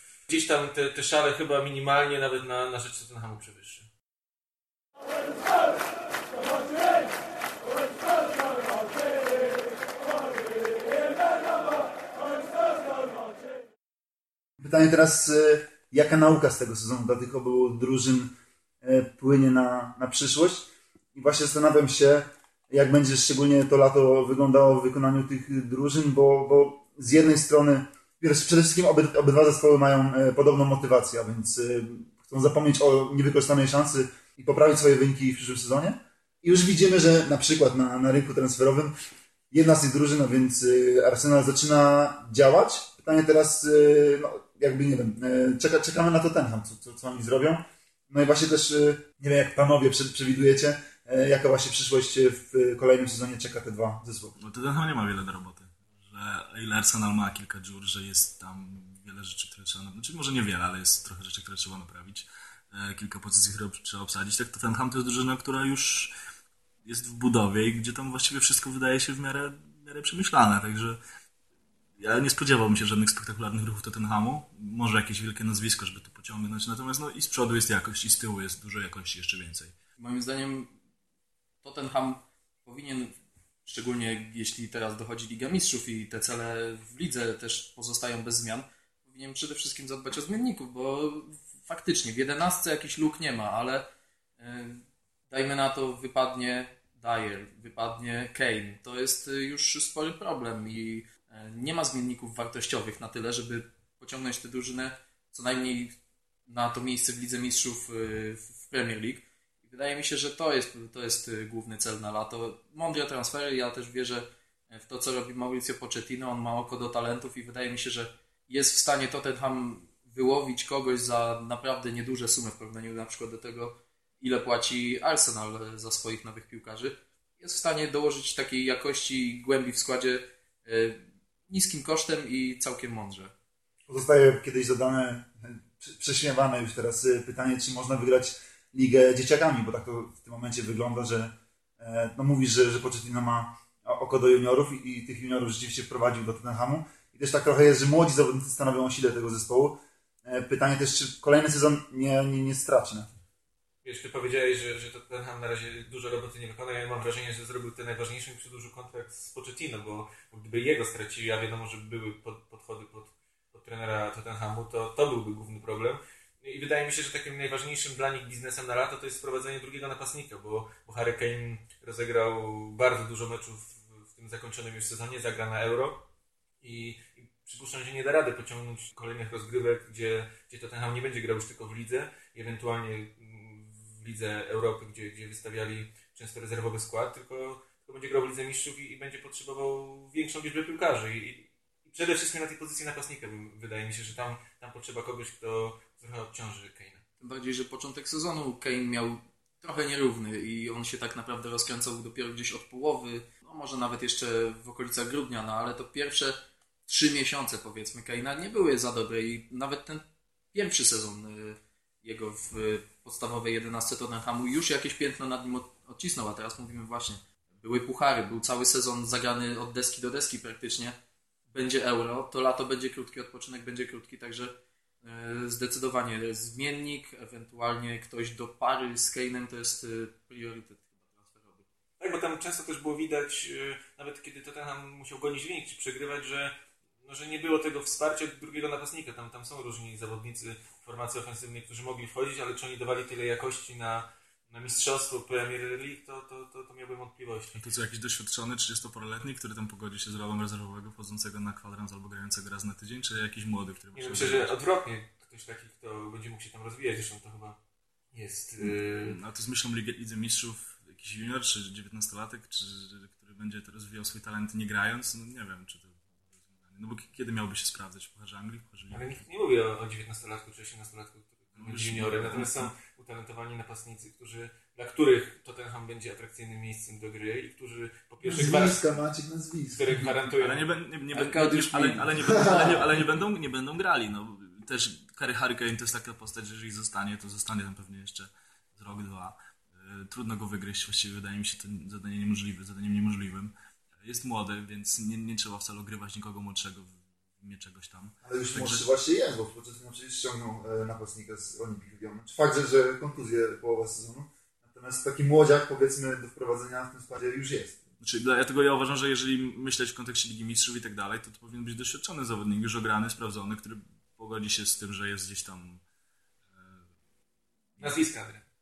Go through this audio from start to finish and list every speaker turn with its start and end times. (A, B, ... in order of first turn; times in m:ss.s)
0:00.3-0:03.9 A
0:14.6-0:18.3 B
0:18.8-0:38.9 B
0:39.5-0:54.4 B
0:54.4-1:06.1 C
1:06.8-1:11.0 C
1:12.0-1:19.7 C
1:20.0-1:20.7 D
1:21.6-1:23.1 D
1:23.6-1:33.8 D
1:34.4-1:45.9 D
1:46.5-2:13.3 D
2:13.9-2:33.1 B
2:33.8-2:56.0 A
2:56.6-3:17.0 A
3:17.2-3:41.0 D
3:41.5-3:51.6 D
3:52.0-3:56.5 A
3:57.0-4:07.6 A
4:07.5-4:14.5 C
4:13.9-4:17.6 A
4:18.1-4:19.2 A
4:18.6-4:29.2 C
4:28.9-4:38.9 A
4:31.6-4:32.7 C
4:38.2-4:39.9 B
4:39.7-4:40.7 A
4:40.0-4:58.8 C
4:41.1-4:42.8 D
4:42.2-4:42.7 B
4:58.2-5:07.8 B
5:08.0-5:15.8 C
5:16.5-5:16.8 C
5:17.8-5:18.4 A